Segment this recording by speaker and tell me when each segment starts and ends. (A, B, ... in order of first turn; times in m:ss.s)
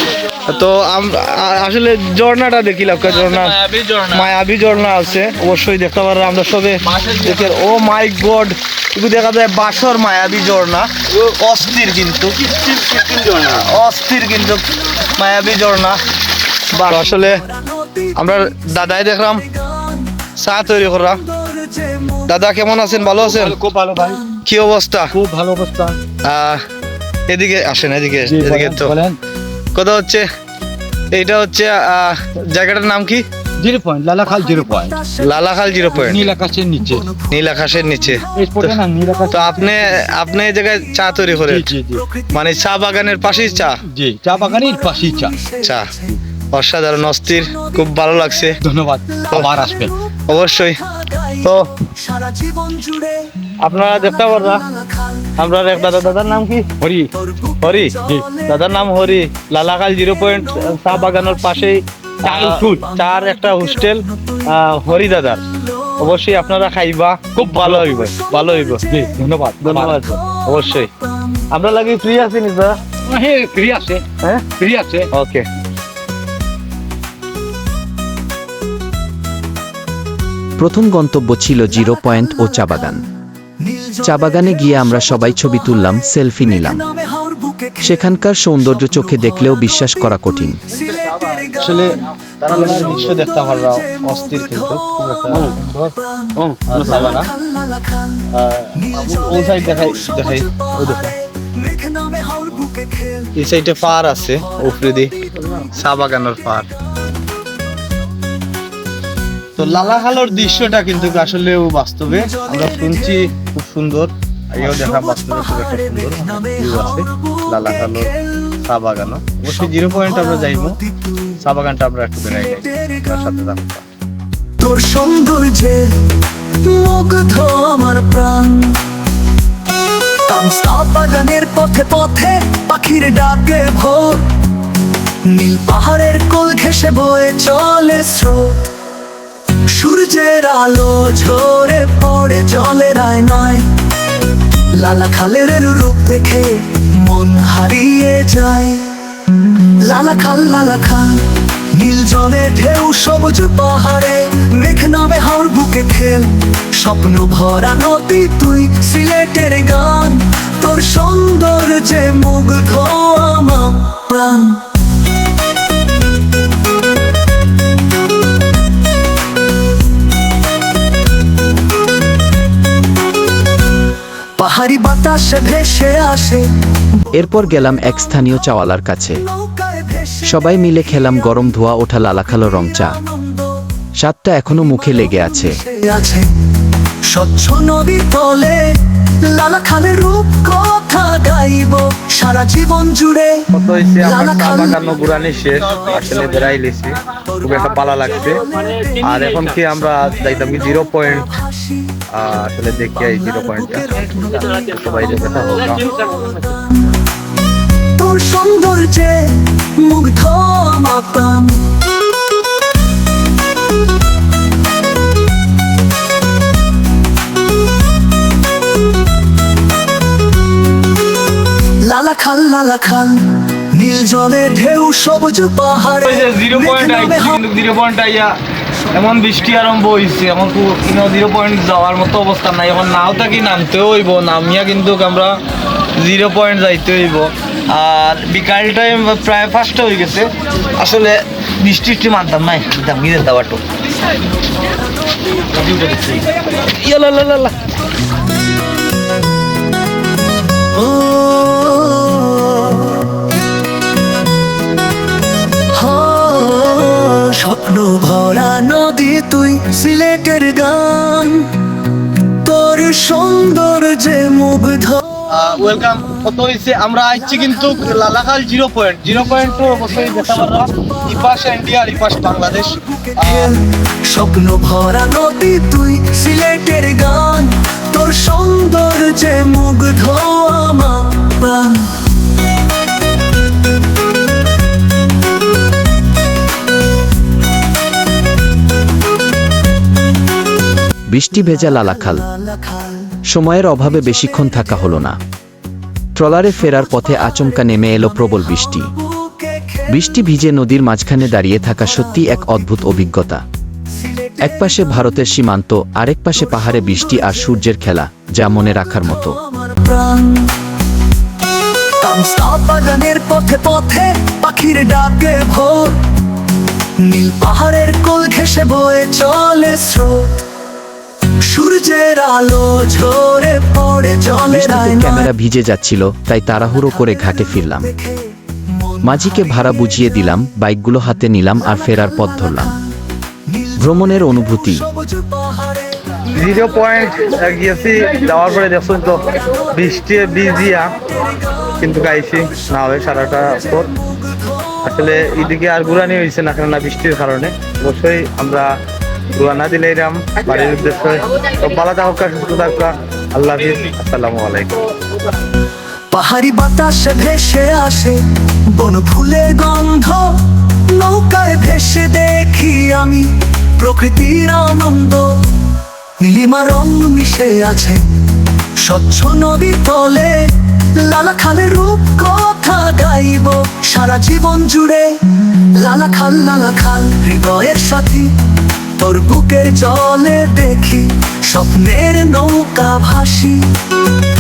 0:00.5-0:12.4 A
0:03.7-0:04.1 B
0:07.0-0:07.3 B
0:12.6-0:13.5 B
0:13.3-0:16.0 A
0:16.7-0:17.4 A
0:18.2-0:19.5 A
0:20.4-0:21.2 A
0:21.4-0:22.2 C
0:22.3-0:23.6 A
0:23.2-0:24.2 B
0:24.4-0:25.1 A
0:25.1-0:26.0 B
0:26.2-0:26.6 A
0:27.3-0:29.0 A
0:28.2-0:29.2 B
0:29.8-0:30.3 A
0:31.1-0:33.3 A
0:33.6-0:35.0 B
0:34.4-0:35.2 C
0:35.2-0:36.3 A
0:36.0-0:37.1 B
0:37.3-0:41.7 A
0:38.3-0:39.9 B
0:41.4-0:42.0 B
0:42.3-0:43.8 A
0:43.9-0:45.3 B
0:44.8-0:45.7 C
0:45.6-0:45.9 A
0:46.5-0:48.6 A
0:48.6-0:49.9 B
0:49.3-0:49.6 A
0:50.3-0:50.8 A
0:51.0-0:53.3 C
0:51.4-0:51.7 A
0:53.6-0:54.6 A
0:54.9-0:55.3 C
0:55.4-0:57.1 A
0:57.6-1:05.4 A
0:58.1-0:58.4 C
1:02.2-1:02.8 B
1:06.0-1:10.9 A
1:07.4-1:08.0 B
1:08.9-1:09.9 B
1:09.8-1:10.4 C
1:11.5-1:12.8 A
1:13.1-1:15.1 B
1:15.1-1:15.5 A
1:20.6-1:23.0 D
1:23.6-1:24.9 C
1:24.0-1:26.8 D
1:26.6-1:27.9 C
1:27.8-1:30.6 D
1:30.8-1:31.8 C
1:31.6-1:35.9 A
1:34.0-1:35.6 C
1:36.2-1:38.3 C
1:36.4-1:36.8 B
1:36.7-1:37.3 A
1:38.3-1:41.0 A
1:38.9-1:43.4 C
1:43.4-1:46.7 A
1:49.6-1:58.1 A
1:54.8-1:55.1 C
1:55.9-1:58.1 C
1:58.6-2:00.8 A
2:01.4-2:03.8 A
2:04.6-2:08.8 C
2:10.2-2:14.3 C
2:15.3-2:18.6 C
2:19.7-2:23.7 C
2:24.7-2:29.0 C
2:29.5-2:44.7 C
2:54.4-2:56.5 C
2:57.1-2:59.2 D
2:59.4-3:00.2 C
3:00.2-3:03.0 D
3:02.9-3:03.4 C
3:04.0-3:05.6 D
3:05.4-3:06.3 C
3:07.1-3:13.5 C
3:13.5-3:18.5 A
3:14.0-3:14.8 C
3:18.5-3:19.1 C
3:19.0-3:21.3 A
3:21.4-3:22.0 C
3:22.1-3:25.9 A
3:24.0-3:24.7 C
3:25.8-3:26.6 C
3:28.0-3:31.7 C
3:41.8-3:47.4 C
3:46.0-3:48.4 A
3:48.9-3:55.4 A
3:56.0-4:03.6 A
4:05.5-4:07.6 A
4:11.0-4:12.7 C
4:15.8-4:21.6 C
4:22.4-4:25.2 C
4:25.3-4:33.6 A
4:33.0-4:42.0 C
4:51.1-4:52.3 D
4:52.4-4:53.2 C
4:53.3-4:55.2 D
4:56.2-4:58.9 D
4:59.1-4:59.9 C
4:59.9-5:03.4 D
5:04.4-5:09.4 D
5:09.5-5:10.6 C
5:12.0-5:16.0 C
5:17.0-5:20.4 C
5:21.5-5:25.3 C
5:24.5-5:27.9 D
5:27.3-5:28.2 C
5:28.9-5:29.4 C
5:29.0-5:32.8 D
5:32.2-5:32.7 C
5:33.8-5:34.8 D
5:34.7-5:36.0 C
5:36.3-5:40.9 A
5:41.8-5:43.9 A
5:44.8-5:48.7 A
5:49.3-5:54.8 A
5:56.1-5:58.2 C
5:58.7-6:05.3 C
6:06.2-6:08.0 C
6:08.8-6:18.3 C
6:19.0-6:23.7 C